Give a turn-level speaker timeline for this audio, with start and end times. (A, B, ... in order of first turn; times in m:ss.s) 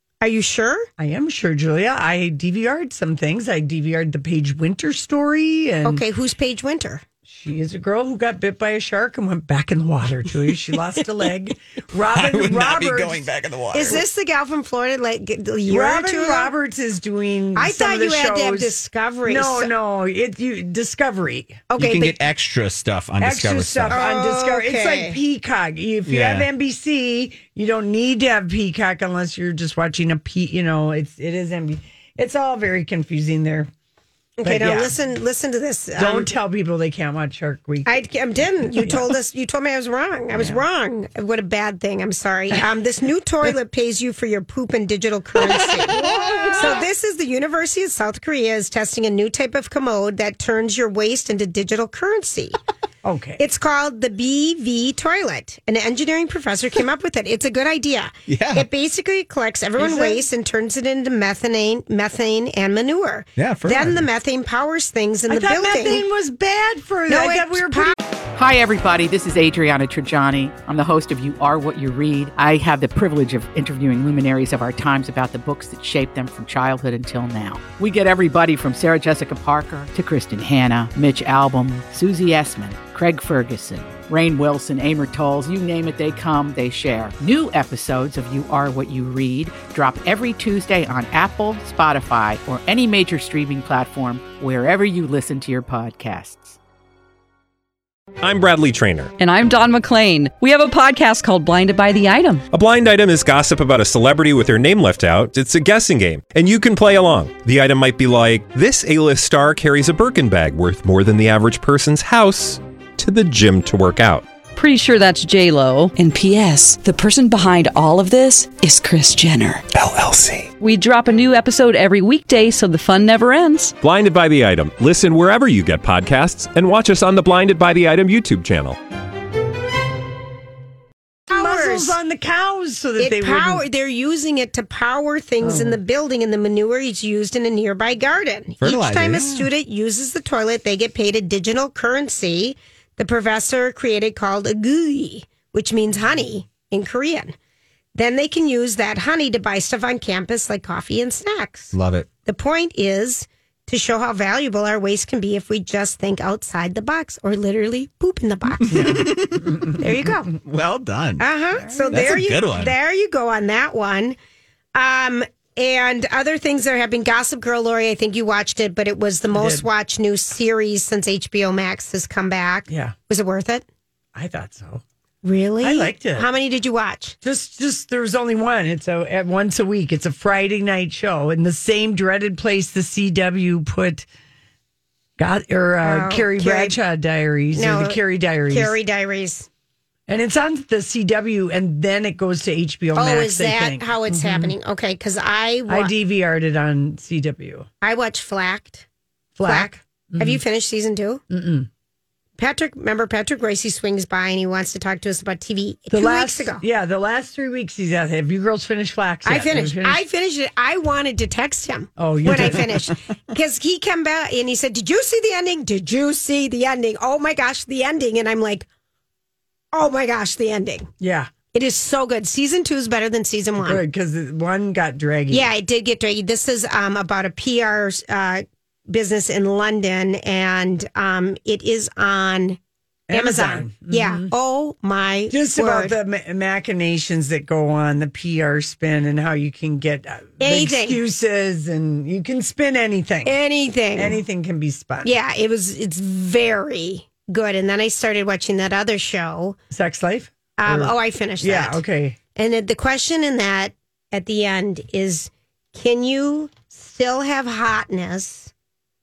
0:00.2-0:00.9 A
0:01.0-0:06.0 B
0:05.8-0:07.0 A
0:07.3-0:13.2 B
0:12.1-0:14.0 C
0:13.7-0:16.5 A
0:15.7-0:21.7 B
0:17.6-0:19.7 A
0:21.7-0:22.2 A
0:21.8-0:24.0 C
0:23.2-0:33.7 B
0:23.9-0:25.2 A
0:26.1-0:26.5 C
0:34.4-0:36.3 A
0:34.4-0:35.0 B
0:36.0-0:38.0 B
0:37.9-0:52.6 A
0:38.7-0:39.1 B
0:40.3-0:40.6 B
0:45.4-0:46.8 B
0:53.0-0:53.4 B
0:53.4-1:06.0 A
0:58.3-0:58.7 C
0:59.8-1:00.2 B
1:03.4-1:04.0 C
1:05.3-1:08.0 B
1:07.1-1:08.0 A
1:08.3-1:36.6 D
1:38.2-1:39.1 E
1:39.2-1:42.4 F
1:42.5-1:54.3 E
1:54.6-1:59.7 F
1:59.8-2:00.5 E
2:00.6-2:03.8 F
2:03.8-2:08.8 E
2:11.3-2:13.6 B
2:11.3-2:12.0 A
2:13.0-2:27.4 A
2:15.4-2:15.8 B
2:18.6-2:19.5 C
2:28.0-2:31.7 A
2:31.7-2:32.1 C
2:32.2-2:39.1 A
2:38.7-2:39.5 C
2:38.7-2:39.8 B
2:39.8-2:40.3 A
2:40.3-2:41.2 C
2:41.2-2:44.2 A
2:41.6-2:42.2 B
2:41.9-2:42.7 C
2:44.8-2:53.6 A
2:49.3-2:49.7 B
2:52.7-2:53.0 B
2:54.2-2:54.8 B
2:55.2-2:57.2 A
2:55.6-2:56.3 B
2:57.2-3:04.1 B
3:05.2-3:08.8 B
3:05.8-3:06.8 A
3:07.5-3:09.5 A
3:10.1-3:14.6 B
3:13.0-3:15.9 A
3:15.7-3:17.7 B
3:17.8-3:18.9 A
3:19.4-3:20.4 B
3:19.4-3:21.2 A
3:21.3-3:21.7 B
3:22.4-3:26.6 A
3:25.9-3:30.0 B
3:29.2-3:38.7 A
3:32.0-3:32.9 B
3:39.7-3:40.9 A
3:41.0-3:41.3 B
3:41.5-3:43.8 A
3:43.6-3:45.5 B
3:45.3-3:52.6 A
3:53.1-3:54.3 B
3:53.1-3:56.0 A
3:55.3-4:03.4 B
4:00.4-4:01.0 A
4:03.2-4:04.2 A
4:04.0-4:05.1 B
4:05.0-4:09.6 A
4:09.7-4:12.2 B
4:10.6-4:11.8 A
4:12.4-4:18.5 A